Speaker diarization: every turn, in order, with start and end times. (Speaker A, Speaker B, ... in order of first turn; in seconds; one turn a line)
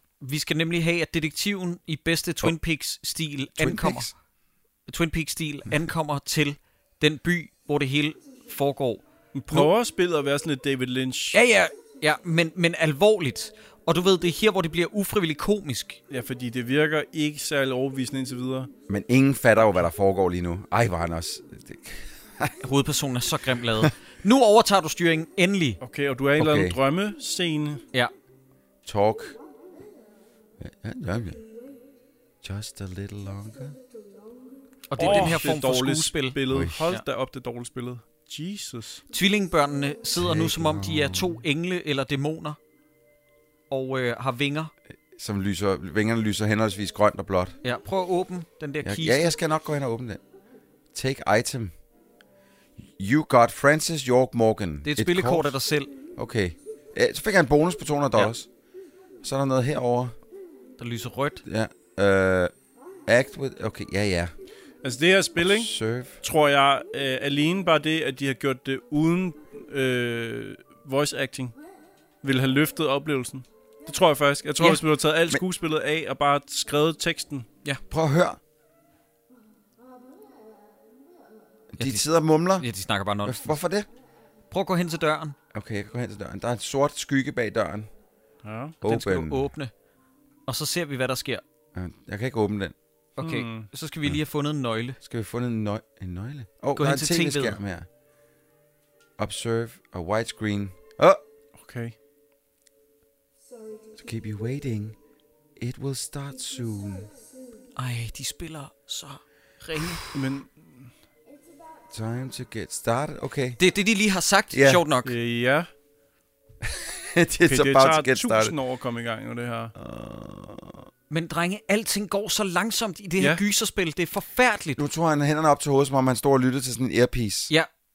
Speaker A: 0.2-4.1
Speaker B: 3.6-4.1
Speaker A: 4.9-9.0
Speaker C: 9.3-11.4
Speaker A: 11.3-16.0
Speaker C: 16.1-18.7
Speaker B: 18.9-22.6
Speaker A: 22.6-25.8
Speaker C: 25.8-27.8
Speaker B: 26.4-26.8
Speaker B: 28.9-29.4
Speaker B: 30.6-31.4
Speaker B: 32.4-33.8
Speaker A: 34.9-37.0
Speaker C: 35.0-39.0
Speaker B: 35.0-35.3
Speaker B: 36.5-36.8
Speaker A: 39.1-42.6
Speaker B: 40.2-41.4
Speaker A: 43.7-44.7
Speaker B: 45.1-47.6
Speaker A: 47.6-49.3
Speaker B: 48.8-50.2
Speaker B: 50.9-51.7
Speaker B: 52.8-55.6
Speaker A: 54.9-55.9
Speaker B: 56.2-58.5
Speaker B: 59.2-60.1
Speaker A: 60.8-61.4
Speaker B: 61.5-62.5
Speaker B: 63.1-64.3
Speaker C: 64.8-71.5
Speaker B: 65.4-66.2
Speaker C: 72.2-77.5
Speaker B: 77.9-78.4
Speaker B: 81.7-82.7
Speaker A: 82.6-83.5
Speaker B: 83.2-83.9
Speaker A: 84.5-85.4
Speaker B: 85.5-87.9
Speaker C: 88.4-88.8
Speaker B: 88.8-89.5
Speaker A: 88.8-89.7
Speaker A: 90.5-91.4
Speaker B: 91.8-92.8
Speaker A: 93.2-95.0
Speaker C: 93.2-93.7
Speaker B: 95.0-97.9
Speaker A: 96.8-97.6
Speaker B: 99.2-101.2
Speaker C: 101.6-102.0
Speaker B: 104.0-105.0
Speaker B: 105.6-107.1
Speaker A: 107.8-110.0
Speaker C: 110.1-110.9
Speaker B: 111.9-113.6
Speaker A: 113.6-115.1
Speaker B: 114.5-114.8
Speaker C: 115.0-115.7
Speaker B: 116.6-118.5
Speaker C: 117.5-119.7
Speaker B: 119.8-120.9
Speaker A: 121.1-124.8
Speaker B: 124.8-127.5